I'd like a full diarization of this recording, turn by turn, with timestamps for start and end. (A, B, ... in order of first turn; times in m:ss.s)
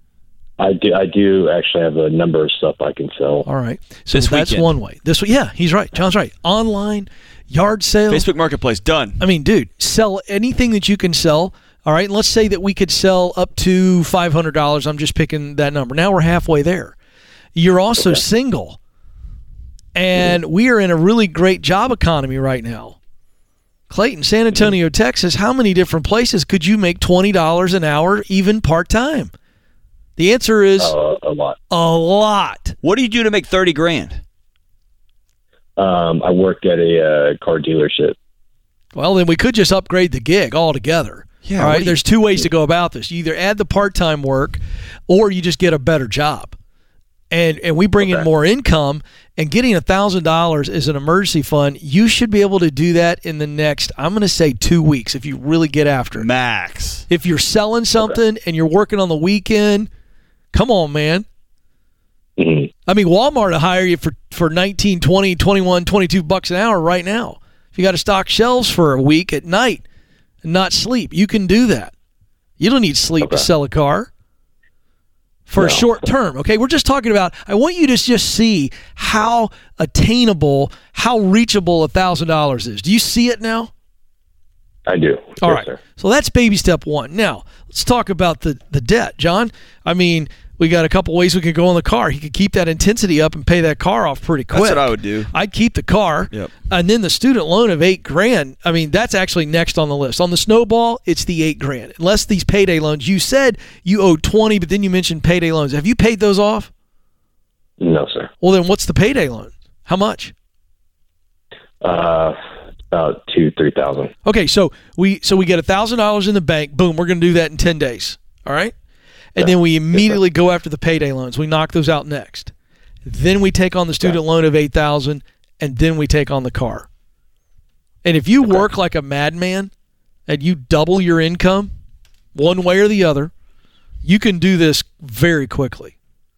0:00.6-0:03.5 A
0:03.5-0:08.2 B
0:04.1-0:04.7 C
0:08.1-0:09.2 C
0:09.2-0:17.0 B
0:17.6-0:18.8 B
0:20.0-0:23.0 B
0:23.9-0:29.3 B
0:30.2-0:31.0 B
0:30.8-0:31.6 A
0:31.7-0:32.8 B
0:32.8-0:34.2 C
0:35.8-0:38.2 A
0:39.0-0:46.6 B
0:41.4-0:42.0 C
0:47.3-0:56.3 B
0:56.2-0:57.0 C
0:57.1-0:59.9 B
1:00.5-1:01.3 B
1:02.4-1:02.7 A
1:02.9-1:09.8 B
1:10.4-1:11.9 B
1:12.6-1:14.1 B
1:13.2-1:13.5 A
1:15.5-1:23.7 B
1:15.6-1:15.9 A
1:24.9-1:25.8 A
1:25.4-1:46.7 B
1:34.5-1:35.3 C
1:47.8-1:48.3 A
1:48.4-1:50.3 B
1:51.8-1:52.4 A
1:52.9-1:54.1 A
1:54.2-1:58.7 B
1:59.4-2:02.5 B
1:59.4-2:00.2 A
2:03.1-2:06.9 B
2:08.0-2:09.7 B
2:10.3-2:11.7 B
2:12.4-2:13.3 B
2:14.0-2:15.9 B